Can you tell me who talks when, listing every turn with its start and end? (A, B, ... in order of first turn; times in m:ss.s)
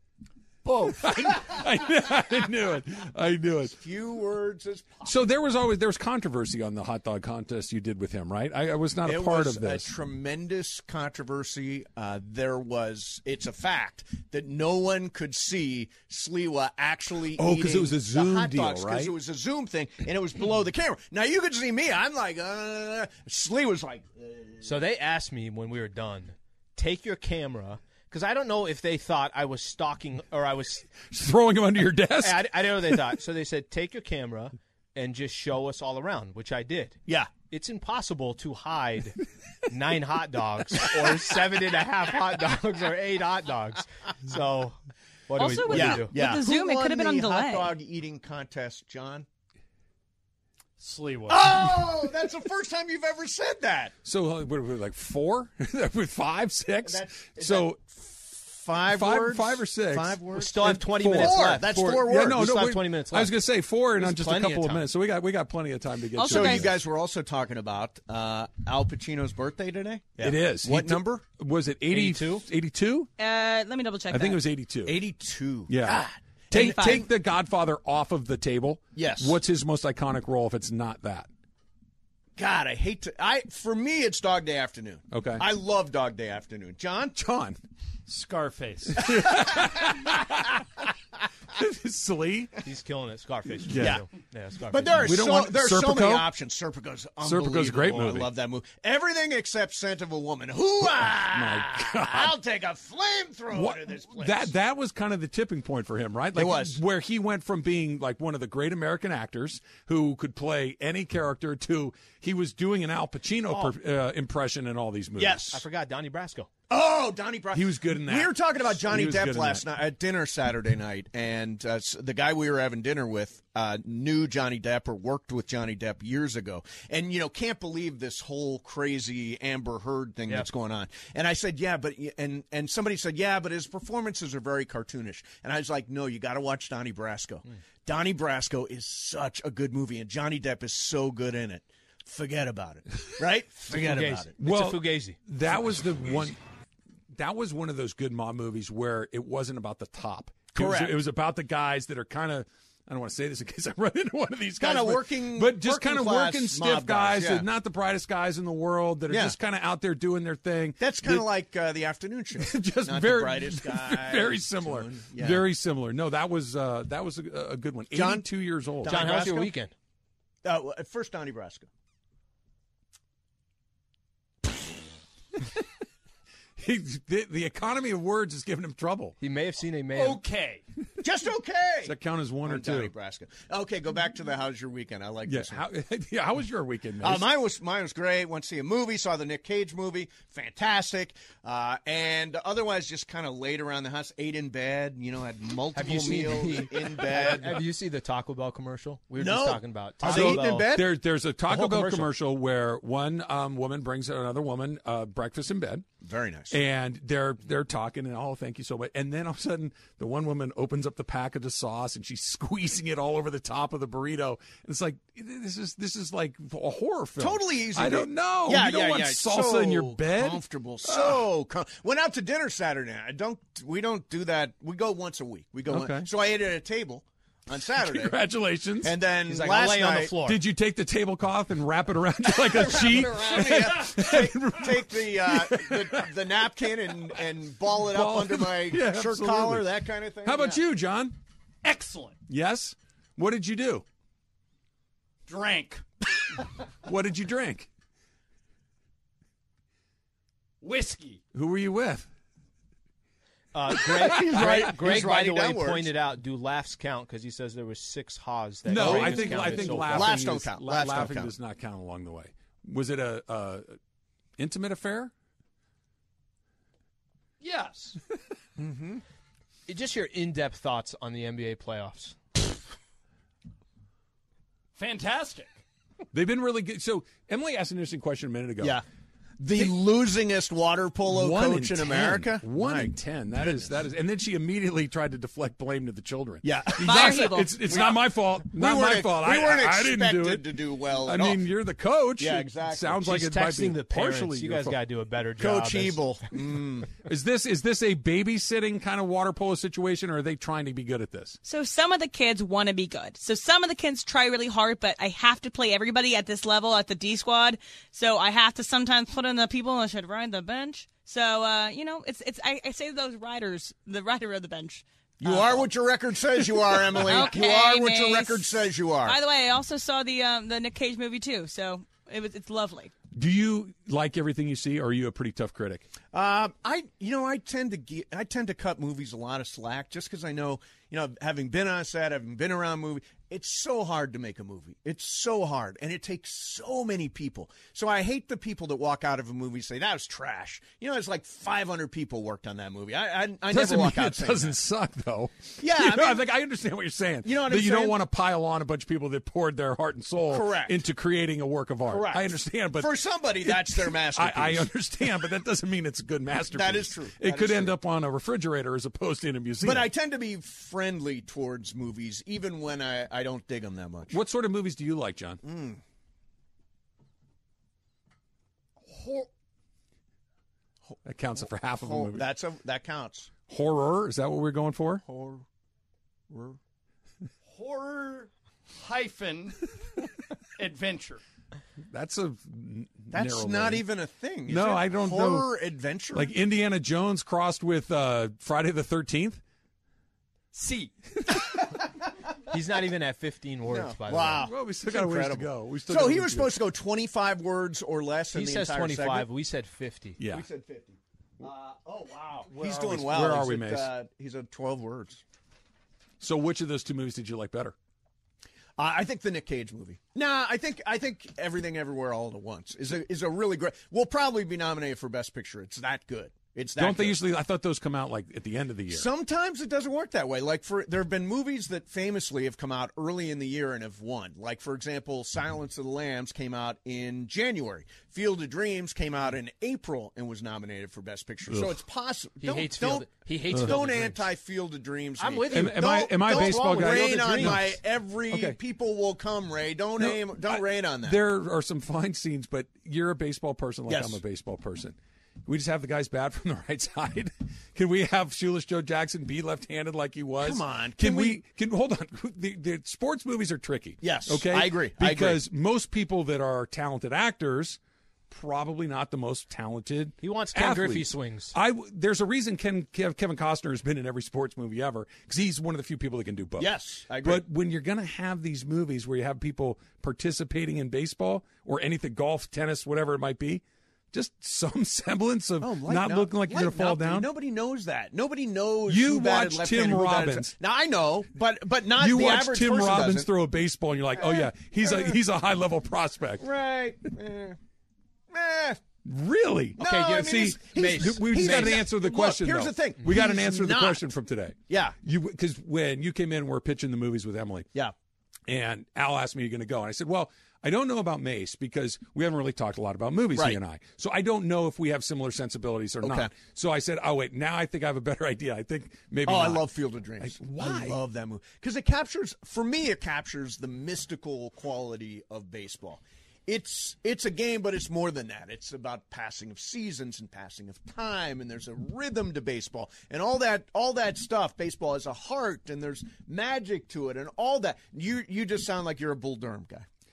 0:00.6-0:01.5 A
0:01.0-0:03.8 B
0:03.7-0:05.2 C
0:05.0-0:09.9 B
0:09.0-0:24.7 C
0:17.4-0:19.1 B
0:24.6-0:30.9 D
0:31.1-0:33.0 B
0:32.2-0:46.1 D
0:37.1-0:37.3 C
0:45.4-0:47.8 E
0:45.7-0:49.3 C
0:50.8-0:51.8 A
0:51.3-0:54.0 C
0:54.0-0:57.8 B
0:56.8-1:02.4 C
0:58.9-1:06.8 B
1:00.3-1:03.4 D
1:04.0-1:04.8 D
1:06.2-1:06.7 E
1:06.2-1:11.2 C
1:10.2-1:13.1 B
1:11.9-1:12.5 D
1:13.2-1:14.4 E
1:14.1-1:15.0 B
1:14.8-1:17.1 C
1:15.7-1:21.3 B
1:16.5-1:17.0 E
1:18.9-1:19.4 C
1:22.4-1:27.2 C
1:25.1-1:25.5 B
1:27.2-1:27.6 B
1:28.1-1:29.2 A
1:29.0-1:30.8 B
1:29.5-1:29.9 C
1:31.5-1:32.5 B
1:32.6-1:35.3 D
1:33.7-1:34.0 B
1:33.8-1:34.0 C
1:34.7-1:44.5 C
1:35.0-1:36.3 B
1:37.2-1:38.3 B
1:41.0-1:42.4 B
1:43.5-1:55.6 B
1:46.3-1:46.8 C
1:53.5-1:53.7 D
1:55.2-1:55.6 C
1:55.5-1:56.5 D
1:56.7-2:24.4 C
1:57.5-1:59.7 B
2:23.7-2:25.2 D
2:24.4-2:26.4 B
2:27.1-2:41.3 B
2:30.5-2:31.0 C
2:34.6-2:37.5 C
2:39.1-2:39.4 C
2:40.8-2:45.5 C
2:42.4-2:49.1 B
2:47.9-2:49.5 C
2:48.8-2:49.7 D
2:50.4-2:51.7 C
2:55.4-2:55.6 B
2:56.6-2:59.2 B
2:59.2-3:00.2 D
3:00.0-3:00.6 A
3:01.0-3:05.6 C
3:01.8-3:02.9 B
3:05.3-3:07.3 B
3:07.0-3:17.6 C
3:15.8-3:20.7 D
3:16.8-3:17.6 B
3:19.2-3:22.1 C
3:20.0-3:25.9 B
3:26.0-3:26.6 C
3:26.5-3:41.3 B
3:37.2-3:48.2 C
3:45.7-3:46.1 B
3:47.8-3:49.0 B
3:48.8-3:50.2 C
3:49.3-3:50.4 D
3:50.2-3:56.6 B
3:52.3-4:00.6 C
3:57.9-3:59.7 B
4:00.2-4:01.2 B
4:01.6-4:02.2 A
4:02.3-4:03.8 B
4:05.3-4:05.8 A
4:06.8-4:07.7 B
4:10.6-4:11.2 A
4:11.3-4:12.1 B
4:13.5-4:20.2 D
4:13.7-4:14.8 B
4:14.0-4:15.9 C
4:18.7-4:23.8 B
4:18.7-4:21.3 C
4:24.4-4:25.1 B
4:27.4-4:28.0 A
4:28.6-4:29.0 C
4:29.7-4:32.2 D
4:34.8-4:35.6 A
4:36.1-4:38.8 B
4:39.4-4:43.7 C
4:41.0-4:54.8 B
4:46.4-4:51.4 C
4:46.8-4:47.8 E
4:52.2-4:53.2 C
4:53.0-4:56.0 D
4:55.4-4:57.0 C
4:56.9-5:01.4 B
5:01.4-5:15.6 E
5:15.2-5:19.2 C
5:17.1-5:18.6 E
5:19.1-5:22.9 E
5:23.1-5:25.9 B
5:26.1-5:44.6 C
5:43.5-5:52.9 B
5:45.6-5:46.2 C
5:47.2-5:48.0 C
5:50.3-5:50.8 C
5:51.9-5:55.3 C
5:53.4-5:59.9 B
5:56.5-5:57.7 C
5:59.6-6:04.2 C
6:04.1-6:05.4 B
6:05.4-6:05.8 C
6:08.9-6:09.3 A
6:10.8-6:13.3 C
6:11.0-6:12.3 B
6:13.5-6:15.0 B
6:15.0-6:15.4 C
6:16.3-6:16.6 C
6:17.4-6:19.7 A
6:20.6-6:21.2 A
6:21.9-6:23.8 B
6:23.1-6:26.3 C
6:24.5-6:25.5 B
6:26.1-6:29.4 B
6:30.5-6:31.0 A
6:32.5-6:34.5 D
6:33.7-6:39.3 C
6:34.4-6:36.5 B
6:38.3-6:40.2 D
6:40.2-6:40.5 B
6:40.2-6:45.2 C
6:42.5-6:43.9 B
6:46.2-6:47.8 B
6:48.8-6:57.2 C
6:56.8-6:59.1 B
6:58.9-7:21.2 C
7:11.5-7:11.8 B
7:12.4-7:14.3 D
7:15.2-7:17.6 D
7:15.5-7:17.8 B
7:18.3-7:18.6 B
7:20.0-7:57.3 B
7:23.9-7:24.2 C
7:30.4-7:31.4 C
7:34.0-7:35.4 C
7:40.2-7:41.6 D
7:46.6-7:47.4 C
7:55.6-8:03.3 C
7:58.9-8:00.5 B
8:02.0-8:06.5 B
8:04.2-8:05.2 C
8:06.4-8:07.6 C
8:08.3-8:08.8 C
8:09.0-8:17.7 B
8:09.8-8:14.0 C
8:09.8-8:11.8 D
8:14.7-8:15.0 C
8:18.5-8:29.6 B
8:26.0-8:26.3 C
8:29.2-8:49.9 C
8:30.2-8:31.0 B